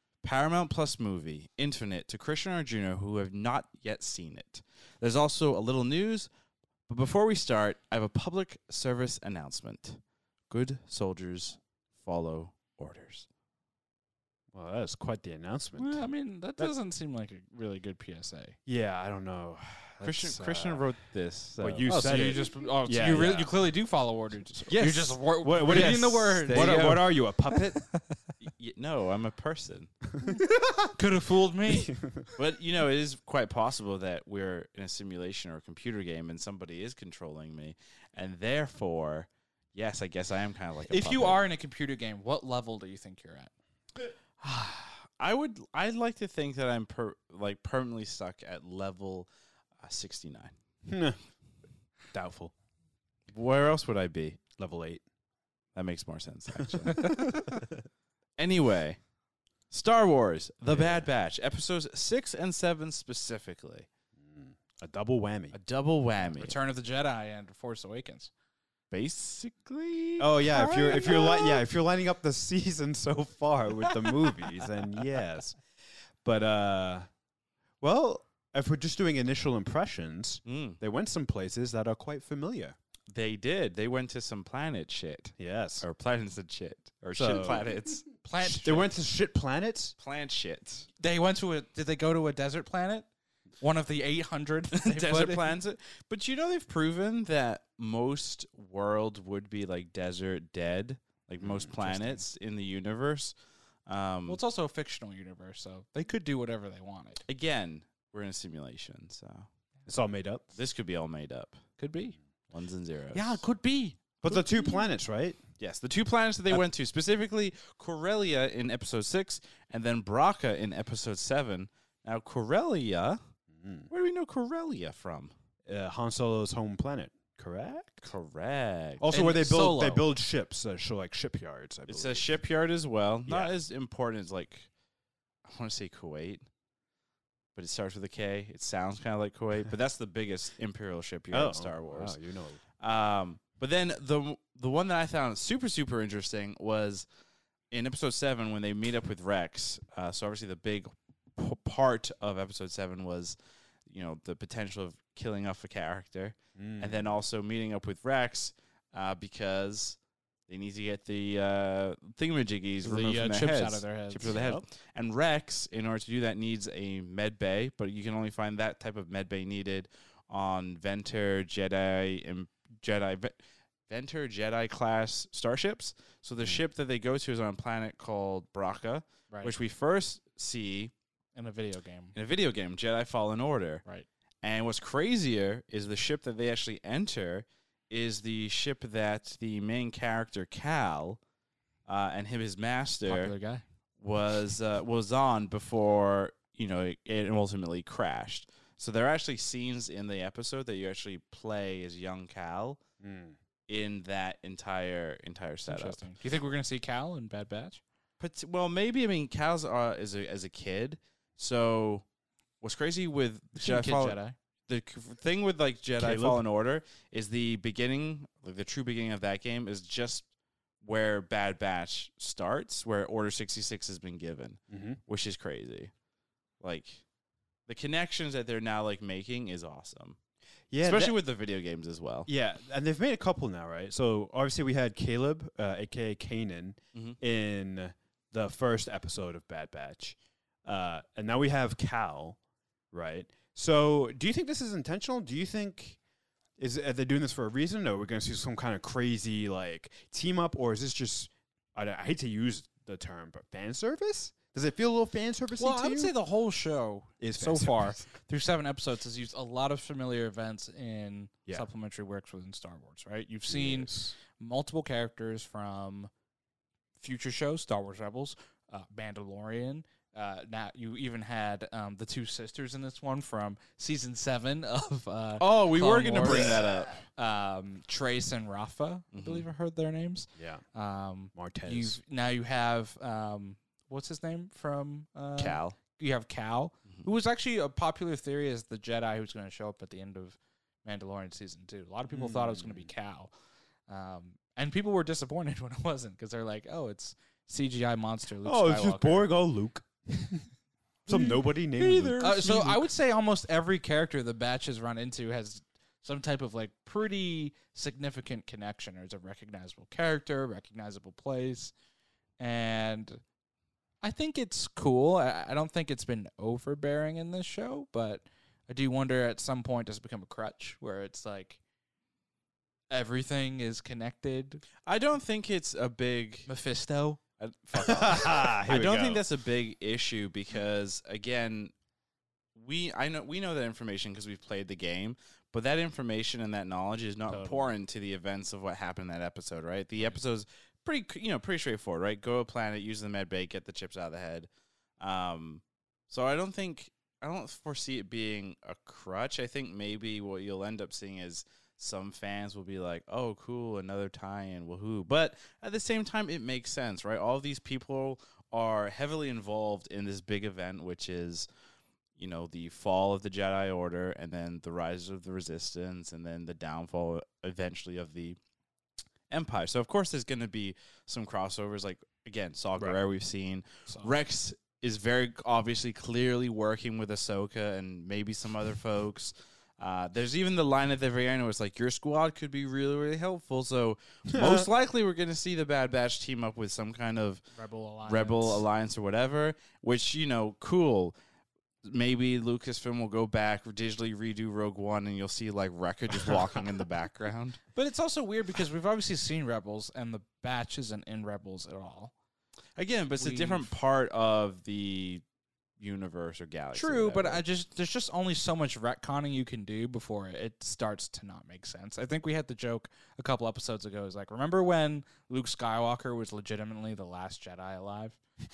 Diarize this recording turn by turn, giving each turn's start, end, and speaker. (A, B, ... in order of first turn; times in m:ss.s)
0:00.2-0:06.3 A
0:06.9-0:13.3 A
0:14.5-0:16.0 B
0:15.8-0:18.6 C
0:18.7-0:20.8 B
0:20.0-0:21.9 A
0:21.6-0:23.5 B
0:21.9-0:28.2 C
0:24.7-0:27.8 B
0:25.7-0:27.0 A
0:28.4-0:29.9 A
0:30.1-0:30.9 B
0:30.9-0:31.9 C
0:31.7-0:32.3 B
0:32.4-0:41.4 A
0:40.9-0:43.5 C
0:44.4-0:49.3 A
0:49.8-0:50.5 A
0:50.9-0:51.2 B
0:52.1-0:52.5 B
0:53.3-0:54.4 A
0:54.6-0:55.0 B
0:55.8-0:57.3 A
0:56.6-0:57.6 B
0:57.0-0:57.4 C
0:58.4-0:59.0 A
0:59.7-1:03.9 A
1:00.7-1:01.1 B
1:04.2-1:05.6 B
1:05.5-1:06.6 A
1:06.3-1:08.3 C
1:08.9-1:11.6 A
1:10.2-1:15.6 B
1:16.2-1:17.1 B
1:17.8-1:22.8 B
1:20.4-1:20.8 A
1:23.1-1:28.1 A
1:25.4-1:25.8 B
1:27.0-1:27.7 B
1:28.2-1:28.9 C
1:28.4-1:30.0 B
1:30.0-1:30.9 A
1:31.0-1:33.1 C
1:33.6-1:35.5 C
1:34.7-1:43.3 A
1:41.4-1:42.2 B
1:43.9-1:44.4 A
1:44.3-1:47.2 C
1:47.3-1:49.5 A
1:49.9-1:50.5 B
1:50.6-1:51.6 A
1:51.8-1:52.2 C
1:52.5-1:53.4 A
1:53.1-1:54.1 C
1:54.2-1:55.4 B
1:55.6-2:03.2 A
2:03.5-2:03.9 B
2:03.9-2:05.3 A
2:05.7-2:08.1 B
2:08.0-2:09.0 A
2:09.0-2:12.3 B
2:09.1-2:10.1 C
2:11.9-2:14.7 A
2:13.3-2:13.5 B
2:15.4-2:16.5 A
2:17.6-2:22.2 A
2:21.3-2:22.6 B
2:22.8-2:27.1 A
2:27.7-3:00.9 A
2:36.6-2:37.1 B
2:42.8-2:44.4 C
2:44.2-2:44.6 B
3:01.3-3:02.2 C
3:02.2-3:03.8 A
3:04.4-3:11.2 A
3:11.9-3:13.3 A
3:13.1-3:13.6 C
3:14.0-3:22.8 A
3:23.0-3:23.4 B
3:23.7-3:26.1 A
3:25.6-3:27.8 C
3:28.2-3:32.0 A
3:32.6-3:40.3 A
3:33.6-3:34.4 C
3:36.0-3:36.4 B
3:40.8-3:45.9 A
3:44.7-3:45.0 B
3:46.6-3:47.0 A
3:47.7-3:50.2 A
3:50.7-3:51.2 B
3:50.8-3:52.3 A
3:52.3-4:02.4 B
4:02.9-4:06.0 B
4:06.6-4:16.1 B
4:15.6-4:26.1 C
4:17.2-4:18.0 B
4:23.5-4:24.1 B
4:27.0-4:53.3 C
4:35.4-4:37.0 A
4:36.2-4:36.6 B
4:39.1-4:39.4 A
4:40.4-4:40.6 B
4:41.4-4:42.0 B
4:45.4-4:45.8 A
4:52.1-4:52.9 B
4:53.9-4:59.3 C
4:58.4-5:00.4 B
5:01.1-5:02.8 B
5:01.1-5:02.8 A
5:02.2-5:11.7 C
5:12.4-5:13.2 C
5:14.0-5:21.6 C
5:22.9-5:24.6 C
5:24.9-5:26.5 A
5:26.5-5:27.2 C
5:27.4-5:31.7 A
5:27.8-5:29.2 B
5:32.6-5:44.5 A
5:37.3-5:37.7 C
5:45.0-6:01.5 A
6:02.2-6:08.4 A
6:09.3-6:27.4 A
6:24.3-6:24.7 B
6:27.6-6:28.6 C
6:28.0-6:31.1 A
6:31.8-6:37.6 A
6:37.7-6:42.1 C
6:42.8-6:45.2 A
6:43.2-6:43.7 C
6:45.8-6:47.4 A
6:46.7-6:58.2 C